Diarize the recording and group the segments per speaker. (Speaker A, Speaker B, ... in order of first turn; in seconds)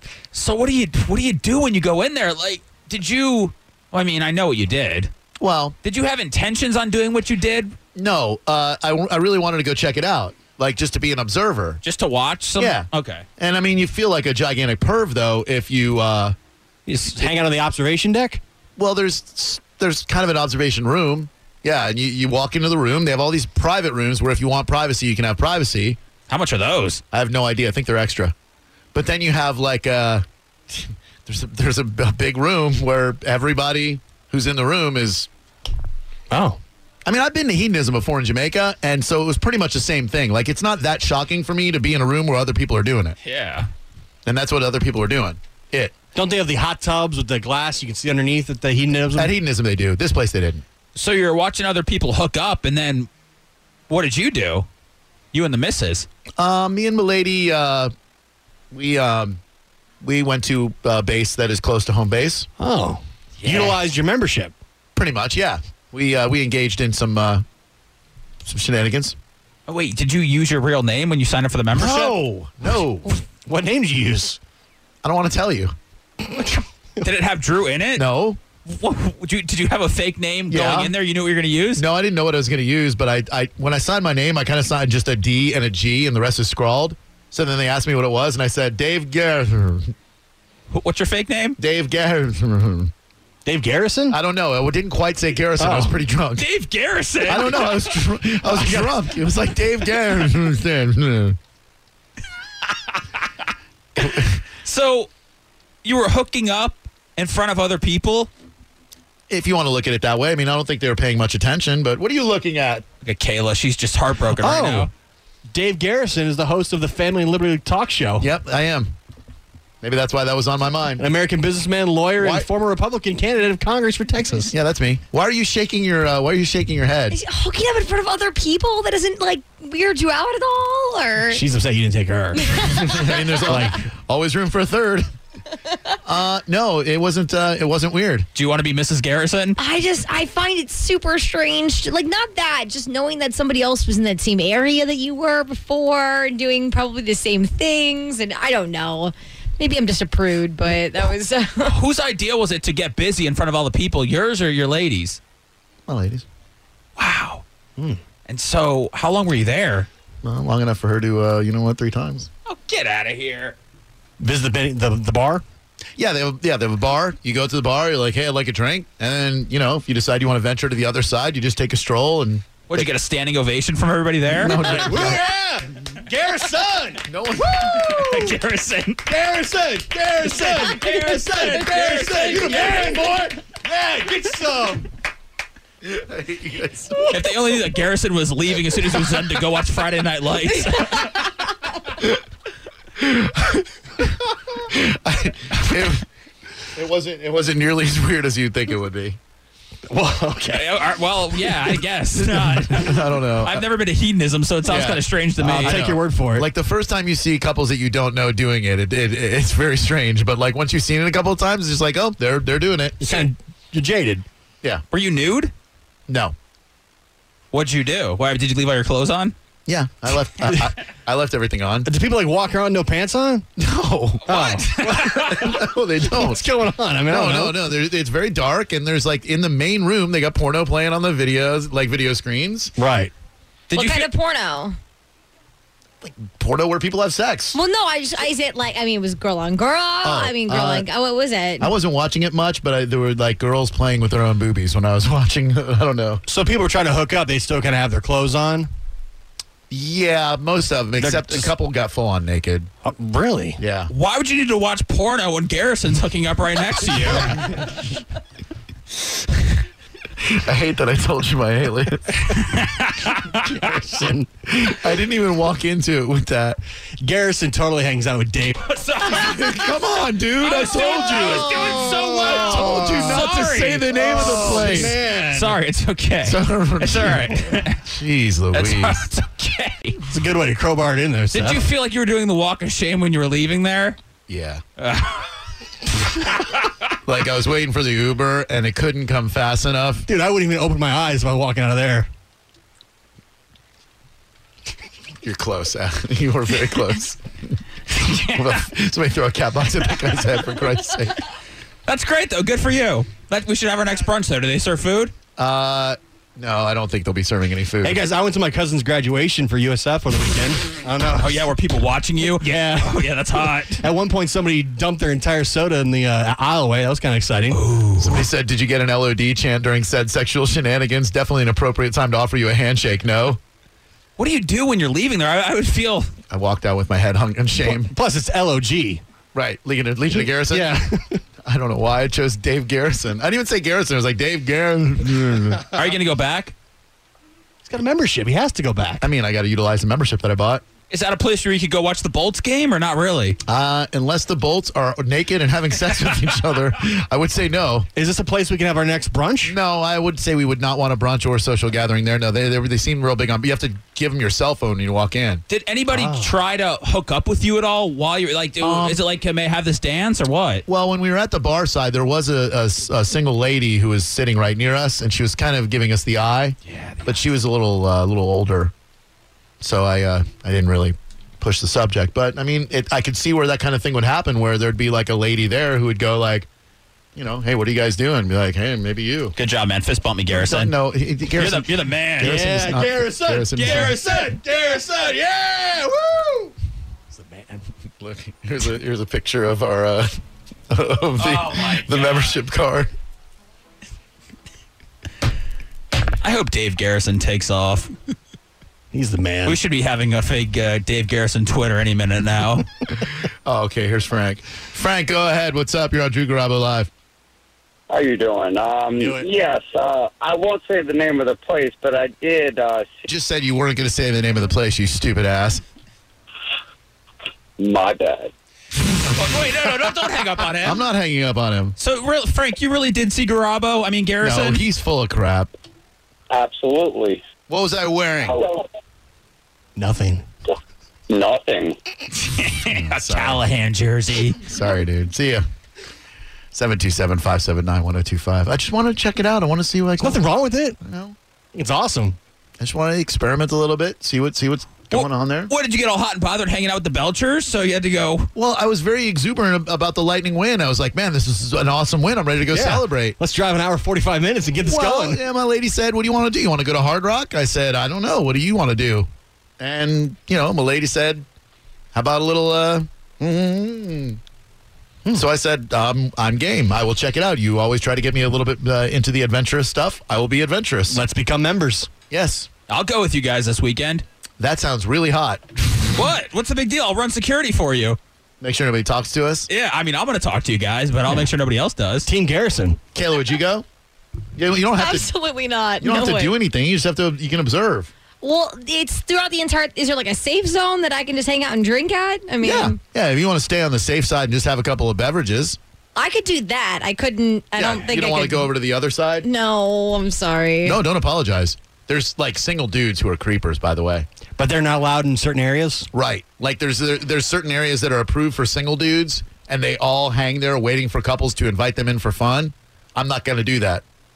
Speaker A: 0.3-5.1, 5.8-7.8, 11.8-13.3, 26.3-27.0, 43.2-43.7, 50.9-53.1, 53.9-54.7, 55.3-56.1, 63.4-63.8, 69.7-72.2, 77.0-78.0, 78.7-81.8, 90.7-91.6, 96.4-98.1, 104.0-105.1, 105.8-108.3, 113.0-114.9, 138.3-139.6, 151.7-155.2, 157.0-157.4, 158.3-159.9, 162.4-163.6, 172.7-175.0, 177.7-179.1, 180.2-183.1, 187.1-191.3, 200.5-205.9, 214.9-215.5, 217.5-219.3, 224.3-225.5, 233.7-234.1, 253.9-257.6, 262.3-264.0, 268.6-269.8, 270.4-277.8, 278.5-280.1, 281.3-284.0, 284.8-285.4, 286.2-286.7, 297.9-298.6, 301.9-305.1, 311.2-313.8, 317.5-318.3, 324.2-326.1, 335.7-336.5, 340.9-343.4, 355.5-360.6, 366.7-367.1, 379.4-380.7, 381.3-382.4, 383.5-384.0, 391.2-392.4, 396.2-397.9, 399.4-402.7, 419.1-420.8, 421.8-424.6, 432.2-434.4, 444.9-448.3, 472.7-474.0, 475.9-478.0, 479.5-482.1
Speaker B: 5.4-5.8, 7.9-11.8, 12.6-16.4, 18.8-26.0, 27.1-28.3, 28.9-35.3, 37.0-43.2, 44.2-45.9, 49.1-50.6, 56.4-57.9, 58.7-59.4, 60.0-62.5, 65.0-67.4, 68.4-69.2, 71.7-73.1, 75.0-75.7, 77.9-78.4, 80.5-80.9, 81.8-89.9, 91.6-92.9, 94.1-96.5, 97.2-101.4, 104.0-104.3, 109.3-112.8, 118.2-118.9, 119.8-121.0, 122.2-122.5, 124.5-127.2, 132.8-135.1, 136.0-138.2, 155.9-156.2, 160.2-162.3, 166.0-172.8, 174.3-175.3, 177.1-178.3, 185.8-187.0, 192.9-196.0, 196.7-199.2, 202.7-203.6, 204.7-213.1, 216.1-216.3, 219.7-221.9, 223.6-224.4, 225.2-226.4, 227.1-232.7, 236.0-237.6, 240.0-240.9, 241.6-246.2, 249.7-252.7, 253.6-253.9, 260.2-262.3, 264.7-266.6, 269.1-271.7, 272.3-275.0, 276.2-279.0, 284.3-284.6, 287.0-290.1, 295.2-301.2, 305.4-308.0, 318.0-323.4, 326.3-327.9, 329.3-330.8, 331.4-335.6, 339.0-340.6, 343.4-347.9, 349.4-355.4, 358.6-359.0, 360.7-368.7, 369.6-376.5, 377.1-379.3, 380.3-384.0, 388.0-390.2, 390.7-392.9, 403.4-406.9, 413.1-415.6, 420.6-421.8, 424.2-425.5, 427.5-428.4, 432.7-433.4, 434.4-435.4, 436.5-440.2, 440.8-441.1, 442.6-445.5, 448.3-453.1, 454.6-459.1, 459.6-461.2, 461.9-464.2, 465.1-471.0, 472.1-472.5, 474.4-476.0, 478.4-479.5, 482.9-483.6, 484.4-485.1, 485.8-487.9, 492.4-495.6, 497.6-499.3, 500.6-504.1, 505.9-513.8
Speaker C: 16.9-18.4, 36.3-36.6, 46.1-49.3, 62.6-64.5, 73.4-74.4, 76.2-76.5, 93.5-94.2, 95.6-95.9, 98.4-99.0, 114.4-114.9, 115.5-118.3, 121.0-124.5, 131.3-132.9, 133.4-133.8, 164.2-165.4, 174.5-177.1, 179.1-184.8, 199.9-200.7, 202.3-202.7, 205.4-206.5, 213.0-214.2, 221.8-223.5, 224.3-227.6, 232.8-233.1, 246.3-248.7, 251.0-251.5, 252.8-253.6, 263.4-264.5, 267.0-268.6, 271.0-275.6, 280.0-281.6, 290.1-292.1, 307.8-311.4, 312.2-313.1, 313.8-317.6, 327.6-329.0, 330.2-331.2, 337.6-339.1, 347.9-349.5, 355.9-356.3, 382.2-386.5, 387.1-387.6, 398.9-399.6, 409.0-409.3, 429.8-430.2, 440.0-440.8, 441.5-442.2, 452.5-455.2, 470.9-471.9, 482.0-482.8, 504.3-505.9
Speaker D: 127.1-131.4, 132.4-133.5, 139.6-151.8, 233.7-234.8, 237.5-241.7, 484.7-486.3, 488.2-492.8, 495.9-498.5, 499.2-500.8
Speaker E: 407.9-413.1, 417.6-418.3, 426.3-427.2, 428.2-428.7, 431.1-431.8